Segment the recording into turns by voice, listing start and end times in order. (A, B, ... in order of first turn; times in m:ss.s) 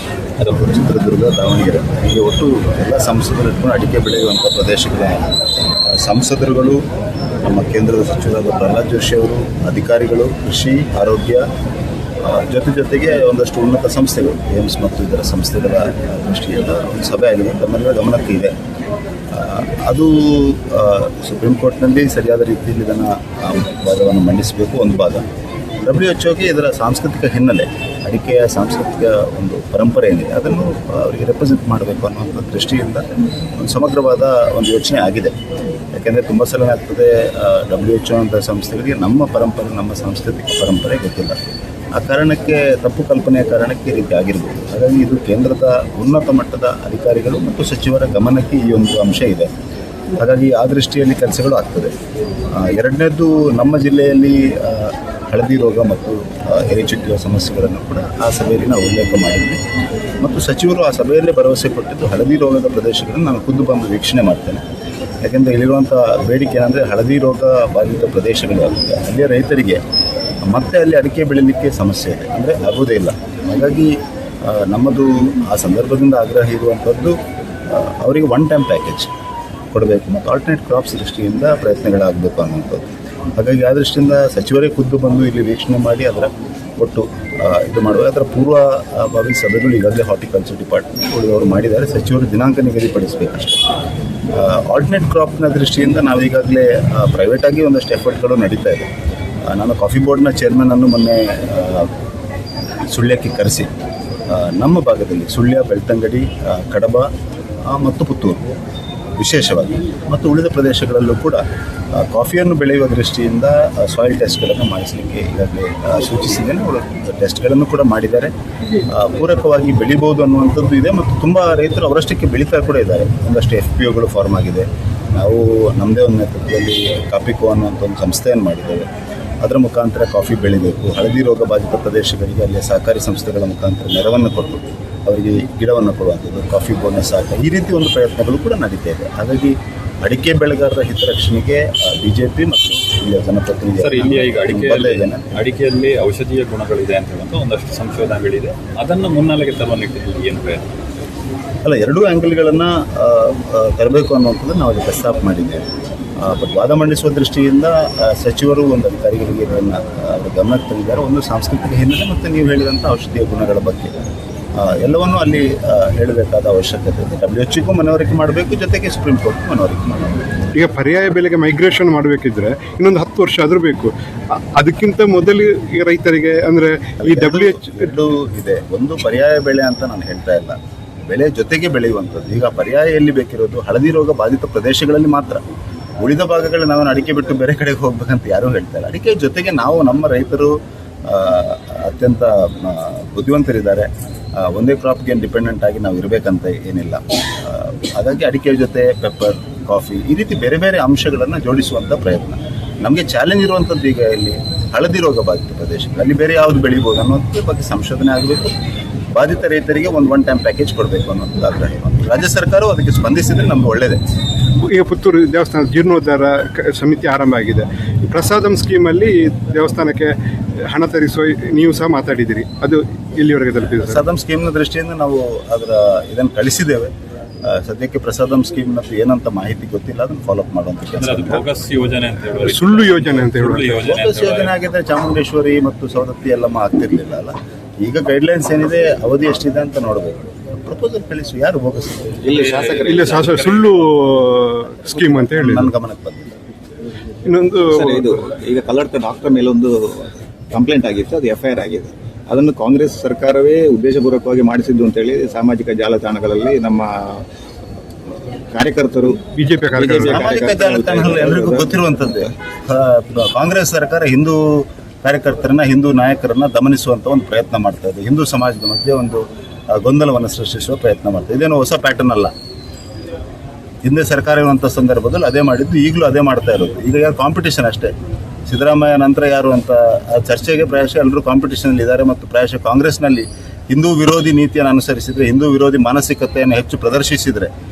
0:00.5-0:06.8 A
0:07.4-0:11.4 A
0:12.2-0:18.5 A
0:19.3-0:25.2 A
0:25.8-0:35.3 A
0:35.9-0:41.4 A
0:41.9-0:49.5 A
0:50.2-0:51.9 A
0:52.5-0:59.6 A
1:00.2-1:04.6 A
1:05.2-1:09.8 A
1:10.4-1:13.9 A
1:14.4-1:17.2 A
1:17.7-1:19.1 A
1:19.7-1:33.6 A
1:34.3-1:38.9 A
1:39.5-1:41.9 A
1:42.9-1:43.7 A
1:44.3-1:47.1 A
1:47.7-1:48.5 A
1:49.2-1:51.4 A
1:51.9-1:58.3 A
1:58.9-2:08.8 A
2:09.4-2:25.3 A
2:23.8-2:30.7 B
2:31.6-2:35.6 A
2:36.2-2:44.0 A
2:44.6-2:50.2 A
2:50.5-2:57.8 C
2:57.0-3:00.6 A
3:01.1-3:05.4 A
3:06.0-3:10.5 A
3:11.0-3:28.5 A
3:29.1-3:34.0 A
3:34.6-3:40.1 C
3:40.7-3:44.0 C
3:43.8-3:46.9 A
3:47.4-3:51.5 A
3:50.9-3:54.5 B
3:52.4-3:53.8 C
3:53.8-4:02.3 A
4:02.2-4:03.4 D
4:02.3-4:03.8 B
4:02.8-4:05.7 C
4:04.9-4:06.3 A
4:07.2-4:08.2 C
4:07.6-4:17.2 D
4:18.5-4:21.8 D
4:19.4-4:20.3 C
4:20.0-4:32.3 A
4:33.8-4:37.9 A
4:38.5-4:47.5 A